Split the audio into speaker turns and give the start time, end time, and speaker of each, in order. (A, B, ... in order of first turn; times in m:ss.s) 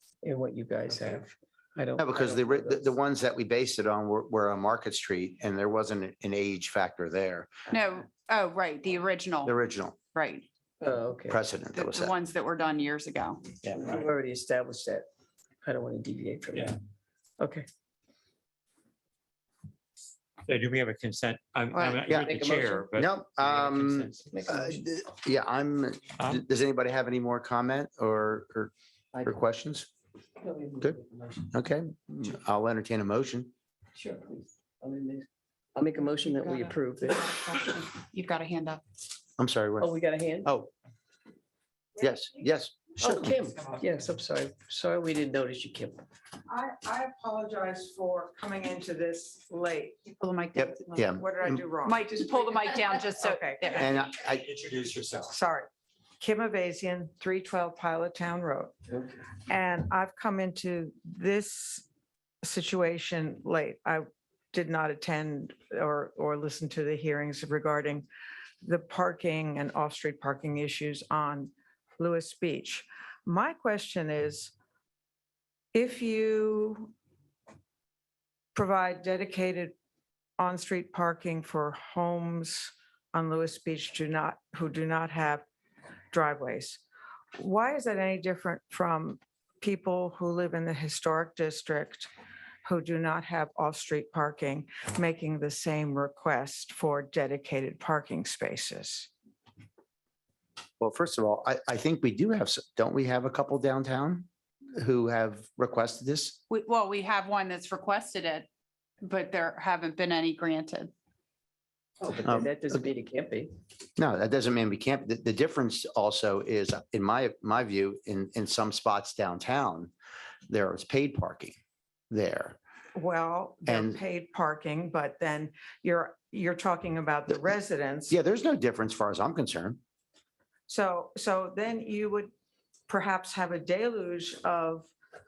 0:00.2-0:03.0 A
0:02.0-0:07.5 B
0:07.7-0:09.6 C
0:09.4-0:10.0 B
0:10.1-0:10.5 C
0:10.8-0:11.4 A
0:11.3-0:12.1 B
0:11.8-0:13.5 C
0:13.7-0:15.1 A
0:15.6-0:16.8 A
0:17.4-0:17.7 A
0:20.5-0:24.3 D
0:21.7-0:22.0 C
0:22.1-0:28.7 B
0:22.3-0:22.7 A
0:24.3-0:24.8 A
0:29.2-0:29.9 B
0:30.4-0:31.5 A
0:31.5-0:33.5 B
0:34.0-0:37.4 A
0:36.2-0:38.8 C
0:39.4-0:40.7 B
0:39.8-0:40.5 A
0:42.0-0:43.3 B
0:43.0-0:46.0 A
0:46.5-0:50.0 E
0:50.2-0:51.1 C
0:50.5-0:51.6 B
0:51.2-0:52.1 E
0:51.8-0:54.0 C
0:53.2-0:53.8 E
0:53.8-0:54.5 B
0:54.3-0:55.4 D
0:55.3-0:55.7 E
0:56.2-0:58.7 E
0:59.5-1:01.8 E
1:02.4-1:08.0 E
1:08.6-1:14.5 E
1:15.7-1:16.9 E
1:18.5-1:19.7 E
1:20.4-1:25.4 E
1:26.1-1:26.8 E
1:27.4-1:32.1 E
1:32.6-1:39.1 E
1:40.8-1:46.4 B
1:46.5-1:48.5 C
1:49.0-1:50.9 C
1:52.0-1:53.5 A
1:52.2-1:52.5 B
1:54.0-1:59.9 B
2:00.5-2:01.6 B
2:02.1-2:02.6 B
2:03.0-2:08.2 E
2:03.7-2:04.0 B
2:08.1-2:09.8 B
2:10.7-2:12.3 E
2:12.9-2:14.9 E